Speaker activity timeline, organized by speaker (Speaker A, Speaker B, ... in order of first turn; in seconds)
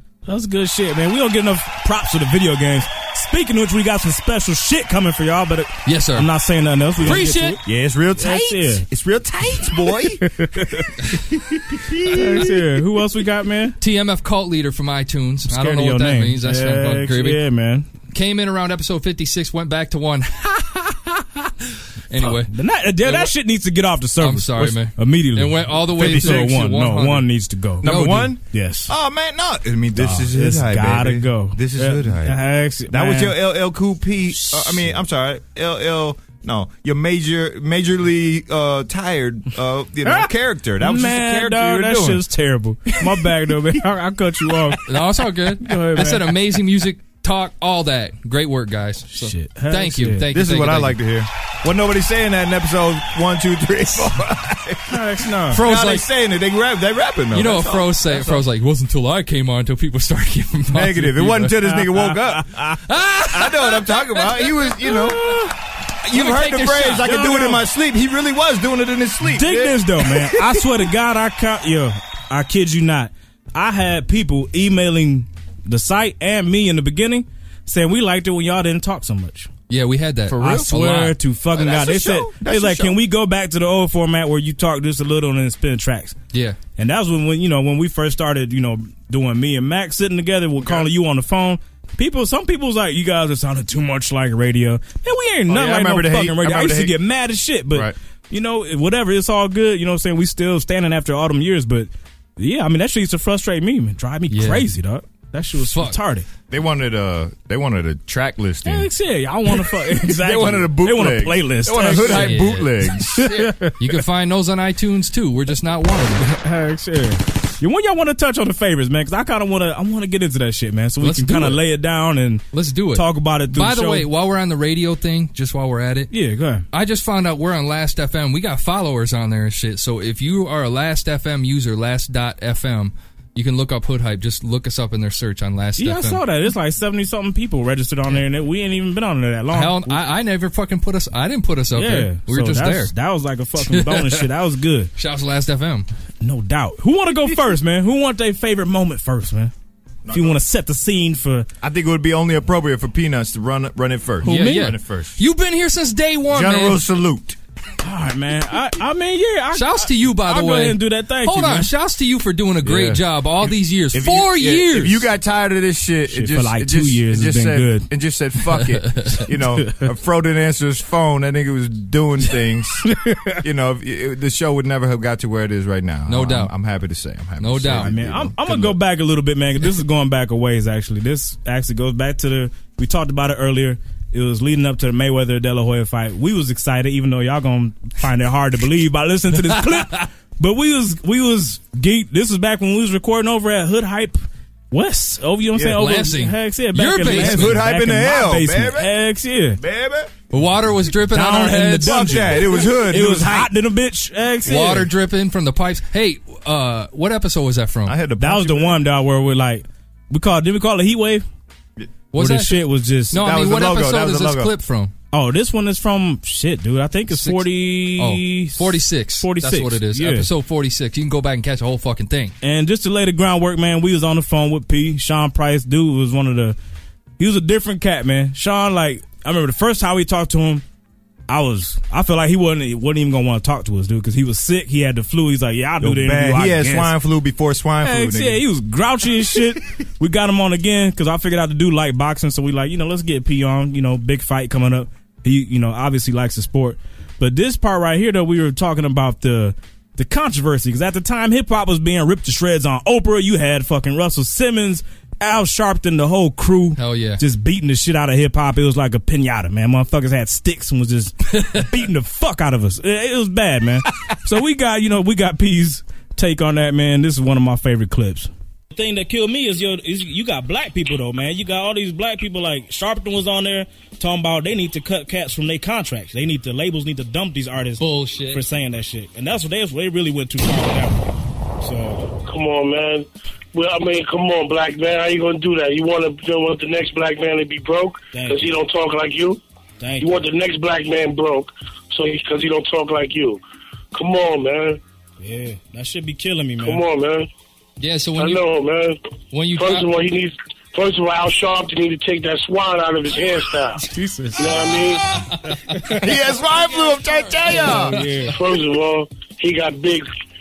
Speaker A: 0.2-7.6, 8.2-8.8, 10.2-10.9, 12.1-13.8, 15.5-17.9, 22.2-28.9, 29.9-33.4, 34.3-35.0, 40.0-45.0, 45.5-46.3, 49.1-50.3, 54.9-55.6, 61.6-62.4, 65.0-65.5, 67.0-67.5, 69.2-79.5, 80.4-86.1, 86.8-106.2, 108.6-112.4, 113.2-113.8, 116.2-122.4, 122.9-124.0, 126.1-126.6, 135.8-140.0, 141.7-144.9, 146.2-149.5, 150.1-151.5, 154.2-154.7, 157.8-161.7, 166.1-167.9, 172.9-173.4, 177.8-199.6, 201.1-204.9, 208.2-211.2, 212.2-213.2, 215.1-220.3, 222.4-226.6, 227.2-230.6, 231.3-236.9, 237.8-281.0, 281.6-282.0, 288.1-288.4, 289.8-290.2, 295.2-296.8, 303.8-304.9, 305.5-306.1, 307.4-308.3
Speaker B: 5.8-6.3, 7.0-7.6, 13.8-17.4, 18.1-21.5, 22.1-22.5, 23.0-23.3, 24.2-27.3, 27.8-28.3, 44.9-51.0, 55.5-56.1, 57.3-61.5, 62.9-65.1, 66.1-67.5, 79.7-81.2, 86.3-86.6, 104.3-104.7, 105.6-106.0, 111.9-112.7, 113.8-116.2, 121.0-121.6, 122.5-126.1, 126.7-136.2, 139.5-142.9, 143.6-144.2, 144.9-145.9, 154.2-156.8, 159.5-165.0, 168.7-169.2, 176.1-176.5, 177.4-177.9, 195.6-197.6, 200.3-202.5, 204.4-207.9, 212.1-214.9, 217.1-222.3, 256.8-257.2, 261.3-261.6, 277.8-278.4, 297.8-298.4, 299.3-299.9
Speaker C: 7.6-10.3, 11.3-12.5, 25.9-26.5, 27.8-42.2, 50.3-58.4, 60.7-65.4, 66.0-70.6, 80.3-80.7, 81.5-83.0, 90.6-90.9, 95.5-97.0, 106.5-108.9, 109.7-113.5, 150.1-150.4, 151.6-155.2, 156.3-157.4, 162.6-178.8, 197.0-199.0, 199.6-200.1, 201.8-203.5, 207.8-208.8, 213.1-214.5, 235.8-238.4, 305.9-307.9
Speaker D: 282.3-289.4, 290.0-293.4, 293.9-294.8, 296.6-297.3, 298.2-299.0, 299.6-303.9, 304.4-305.1, 308.2-310.1